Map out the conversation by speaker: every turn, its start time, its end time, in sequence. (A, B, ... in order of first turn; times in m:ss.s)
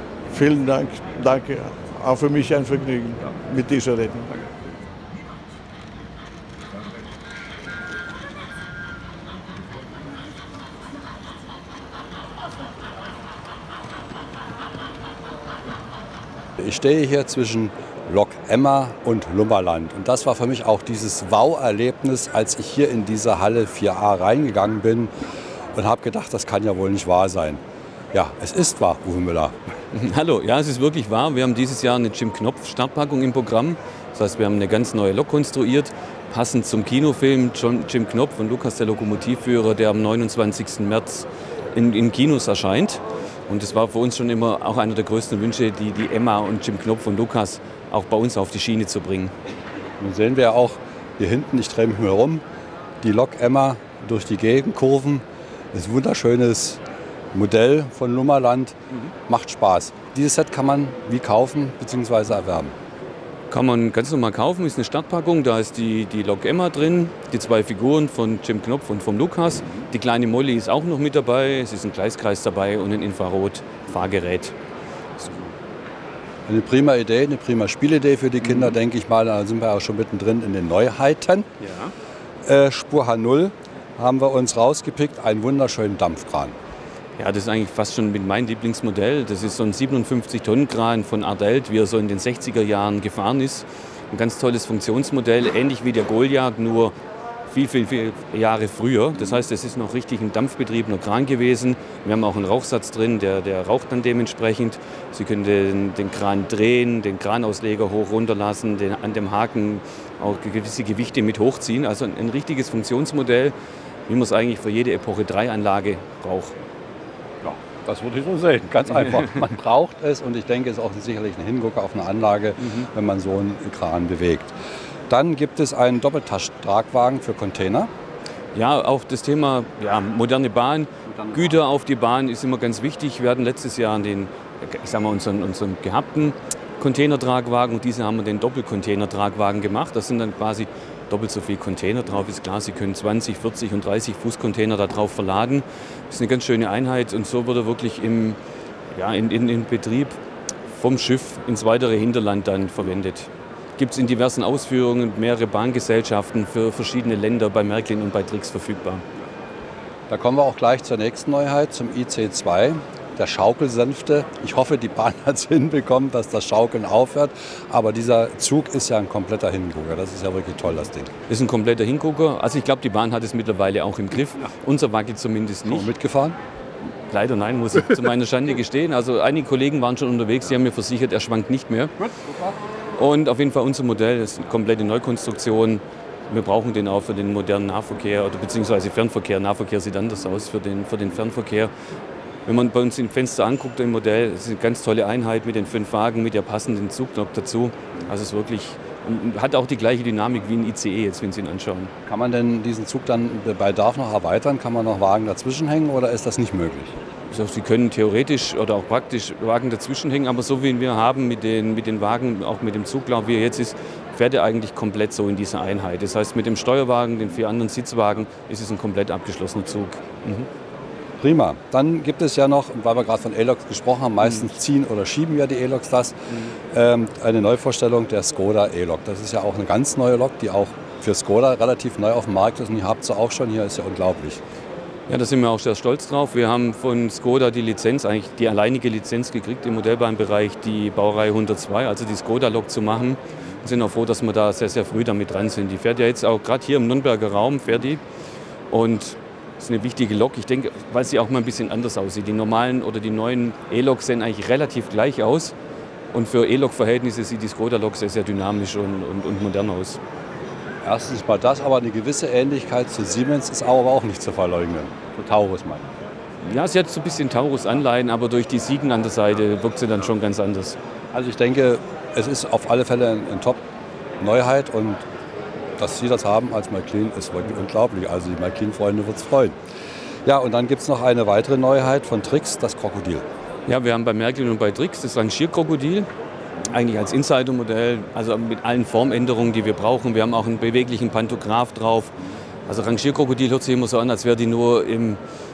0:00.3-0:04.3 A
0:16.6-0:25.1 B
0:25.7-0:27.6 B
0:28.1-0:29.6 B
0:29.9-0:49.3 C
0:50.0-0:52.4 B
0:53.0-0:56.8 B
0:57.3-1:02.7 B
1:03.5-1:14.5 C
1:16.5-1:21.5 B
1:21.6-1:21.9 C
1:22.4-1:26.6 B
1:27.2-1:37.0 C
1:37.5-1:53.6 C
1:54.1-1:56.6 C
1:57.4-2:04.5 B
2:02.6-2:02.9 C
2:05.1-2:07.9 B
2:08.5-2:28.4 C
2:11.1-2:11.5 B
2:28.9-2:30.2 C
2:30.7-2:39.0 C
2:40.1-2:51.1 B
2:51.3-2:55.9 C
2:55.7-2:56.4 B
2:57.1-3:01.9 C
3:02.0-3:02.6 B
3:03.0-3:11.7 C
3:12.5-3:21.9 C
3:22.0-3:27.0 B
3:27.3-3:40.5 C
3:41.2-3:54.4 B
3:55.1-4:08.0 C
4:08.7-4:15.6 C
4:16.1-4:20.0 C
4:20.8-4:25.9 B
4:26.4-4:30.8 C
4:31.1-4:33.6 B
4:34.2-4:35.0 B
4:35.8-4:39.6 B
4:40.2-4:43.2 B
4:43.7-4:46.1 C
4:46.7-4:52.1 C
4:52.7-4:55.2 C